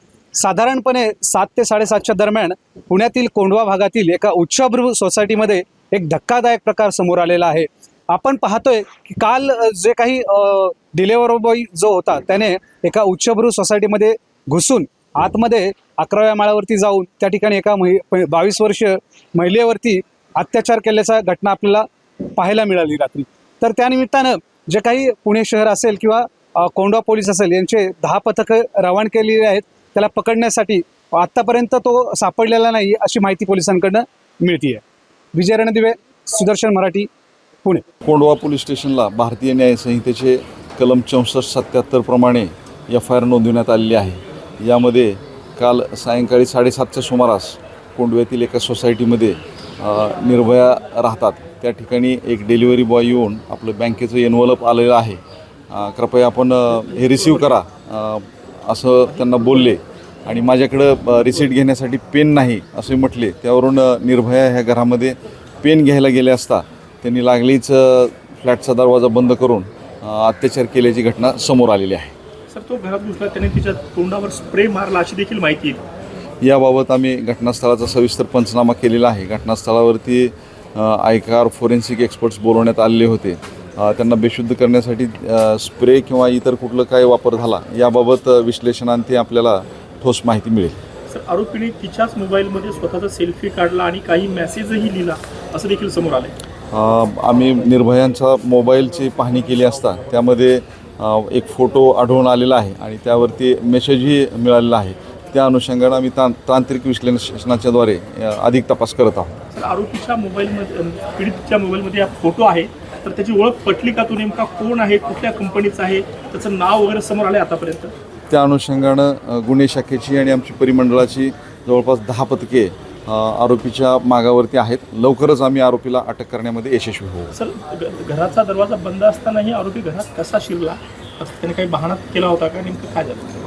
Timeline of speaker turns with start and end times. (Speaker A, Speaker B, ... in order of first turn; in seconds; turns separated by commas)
Speaker A: 0.3-37.1, Speaker B: 38.0-55.2, Speaker B: 55.7-72.1, Speaker C: 72.5-75.8, Speaker B: 76.4-90.8, Speaker C: 91.1-96.3, Speaker B: 96.7-109.4, Speaker C: 109.5-117.9, Speaker B: 118.3-127.3, Speaker C: 127.3-133.2